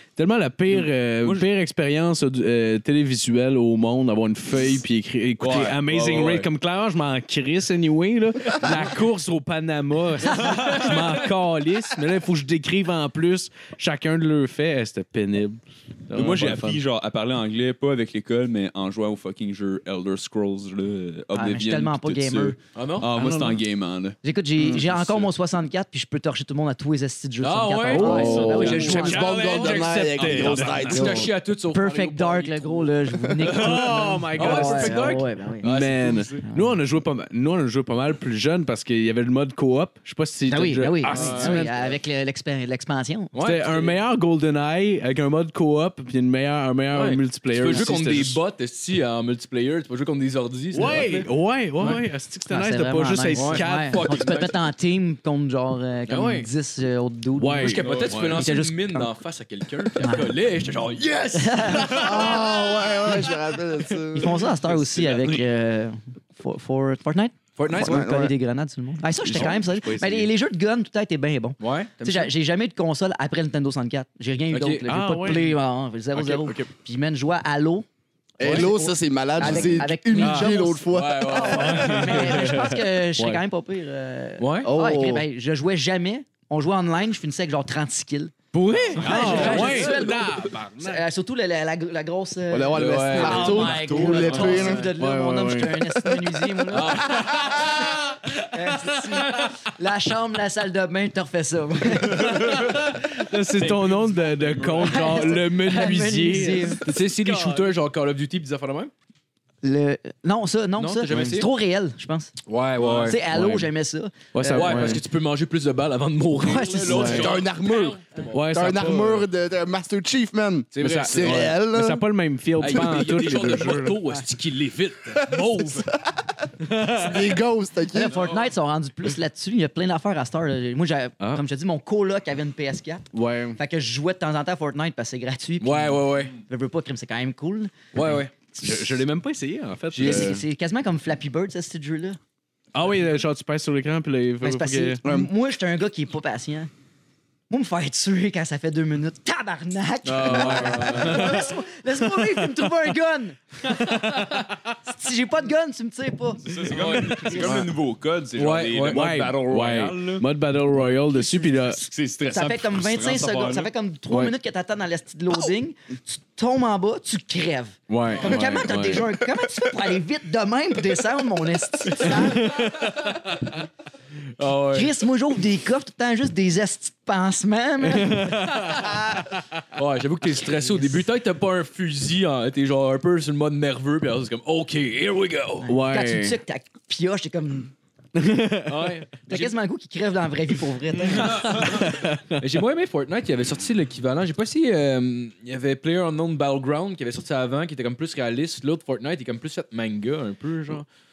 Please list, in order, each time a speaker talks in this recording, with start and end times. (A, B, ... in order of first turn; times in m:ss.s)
0:00.2-0:16.8 A
0:00.8-0:01.4 B
0:05.4-0:06.5 B
0:10.4-0:11.2 C
0:10.4-0:10.7 D
0:16.1-0:24.2 B
0:21.3-0:22.6 D
0:22.7-0:23.1 C
0:23.1-0:23.6 A
0:24.2-0:29.4 D
0:24.7-0:25.3 B
0:27.4-0:36.4 C
0:27.8-0:31.2 A
0:28.5-0:31.3 E
0:30.9-0:35.7 D
0:33.4-0:41.7 A
0:36.4-0:36.8 D
0:40.5-0:43.3 D
0:41.0-0:41.9 C
0:43.3-0:44.0 C
0:43.4-0:48.4 A
0:46.9-0:52.0 C
0:50.7-0:54.3 A
0:51.8-0:59.1 D
0:53.3-0:54.6 C
0:56.1-0:56.5 C
0:57.4-0:58.4 A
0:57.6-1:02.5 C
1:00.0-1:00.4 D
1:01.3-1:02.6 D
1:01.8-1:04.4 E
1:04.1-1:17.8 D
1:04.6-1:05.4 C
1:07.6-1:08.0 C
1:07.7-1:08.3 E
1:09.2-1:10.3 A
1:11.6-1:12.3 C
1:14.5-1:14.8 C
1:14.8-1:15.6 A
1:16.1-1:16.7 A
1:18.4-1:21.4 E
1:18.4-1:28.3 D
1:18.4-1:18.7 C
1:19.4-1:22.5 C
1:21.5-1:23.4 A
1:24.4-1:24.7 C
1:24.6-1:25.2 E
1:28.5-1:30.1 C
1:28.6-1:31.0 A
1:29.0-1:37.8 D
1:29.0-1:29.7 B
1:32.5-1:34.9 E
1:32.7-1:34.8 C
1:33.5-1:34.7 B
1:35.0-1:36.7 A
1:36.7-1:37.9 C
1:37.3-1:38.5 A
1:38.4-1:42.8 D
1:42.2-1:47.7 A
1:43.6-1:45.2 B
1:44.9-1:46.8 D
1:46.8-1:48.9 C
1:49.6-1:52.3 D
1:50.8-1:51.5 C
1:52.5-1:53.2 C
1:52.8-1:53.1 B
1:53.0-1:55.0 D
1:53.3-1:53.7 A
1:54.3-1:55.0 A
1:54.5-1:58.4 C
1:56.4-1:57.3 D
1:56.9-1:57.3 A
1:57.0-2:02.0 E
1:58.3-1:59.2 A
2:00.7-2:01.5 C
2:00.8-2:04.0 A
2:02.6-2:05.9 C
2:06.0-2:08.2 E
2:06.6-2:07.1 A
2:07.9-2:19.0 D
2:08.2-2:08.4 C
2:13.1-2:13.6 A
2:15.6-2:16.4 C
2:17.9-2:18.3 C
2:18.6-2:20.4 A
2:19.9-2:20.3 C
2:20.0-2:22.2 D
2:22.7-2:25.0 A
2:24.4-2:26.7 D
2:25.0-2:25.3 E
2:27.5-2:34.3 D
2:30.0-2:31.5 C
2:30.2-2:31.4 A
2:33.6-2:34.4 A
2:34.8-2:37.7 D
2:36.4-2:40.3 B
2:38.3-2:39.0 C
2:38.9-2:41.8 A
2:41.2-2:43.7 B
2:42.3-2:52.7 D
2:44.1-2:44.3 A
2:47.9-2:49.1 A
2:52.0-2:53.1 A
2:52.8-2:53.2 C
2:54.4-2:54.9 C
2:54.7-2:59.1 D
2:57.8-2:59.4 A
2:59.7-3:05.7 C
3:00.6-3:01.0 D
3:05.6-3:07.7 D
3:05.6-3:06.4 A
3:08.1-3:08.9 A
3:08.7-3:09.5 C
3:09.3-3:11.7 D
3:11.1-3:20.8 C
3:11.6-3:12.4 A